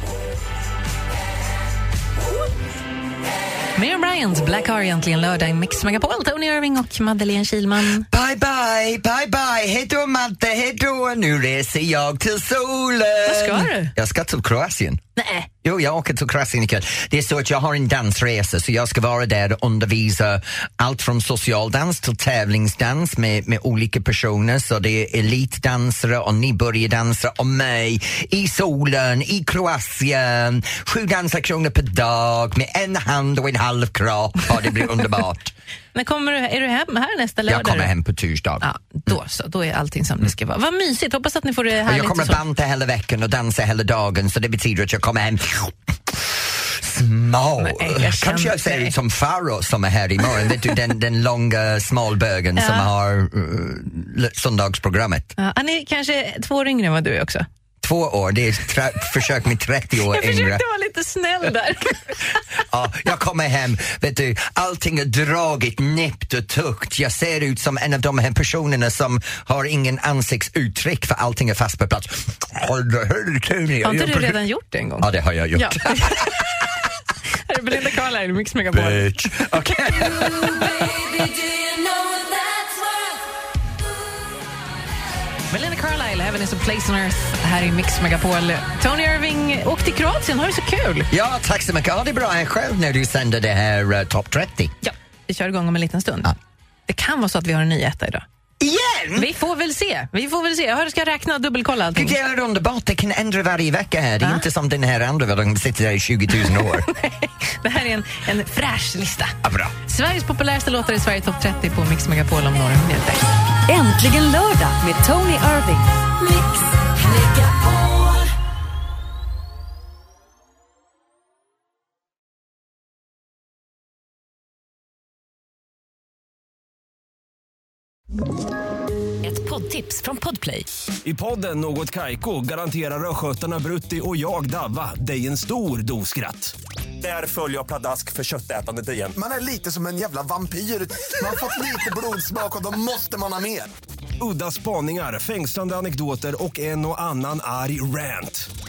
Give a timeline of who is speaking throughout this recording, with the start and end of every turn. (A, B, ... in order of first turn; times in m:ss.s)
0:03.8-0:08.1 A
0:08.1-0:15.0 B
0:13.3-0:13.9 A
0:15.2-0:15.5 A
0:15.6-0:35.5 B
0:35.9-0:37.9 A
0:37.5-0:39.2 B
0:38.6-0:42.4 A
0:41.9-0:55.3 B
0:47.6-0:48.9 A
0:52.6-0:52.9 A
0:55.4-0:57.5 A
0:57.8-1:00.6 B
1:00.1-1:02.4 A
1:02.7-1:14.4 B
1:13.8-1:16.5 A
1:15.0-1:16.4 B
1:17.4-1:19.2 A
1:18.7-1:21.0 B
1:20.2-1:23.2 C
1:25.5-1:31.1 A
1:31.1-1:34.8 B
1:34.8-1:36.3 A
1:36.9-1:38.2 A
1:38.6-1:39.3 B
1:39.2-1:42.2 A
1:41.9-1:46.9 B
1:46.4-1:49.4 A
1:49.4-1:49.7 B
1:49.9-1:53.3 A
1:53.7-1:56.0 D
1:57.0-1:58.2 C
2:09.2-2:10.6 A
2:11.0-2:19.2 E
2:19.2-2:23.7 F
2:24.2-2:28.5 E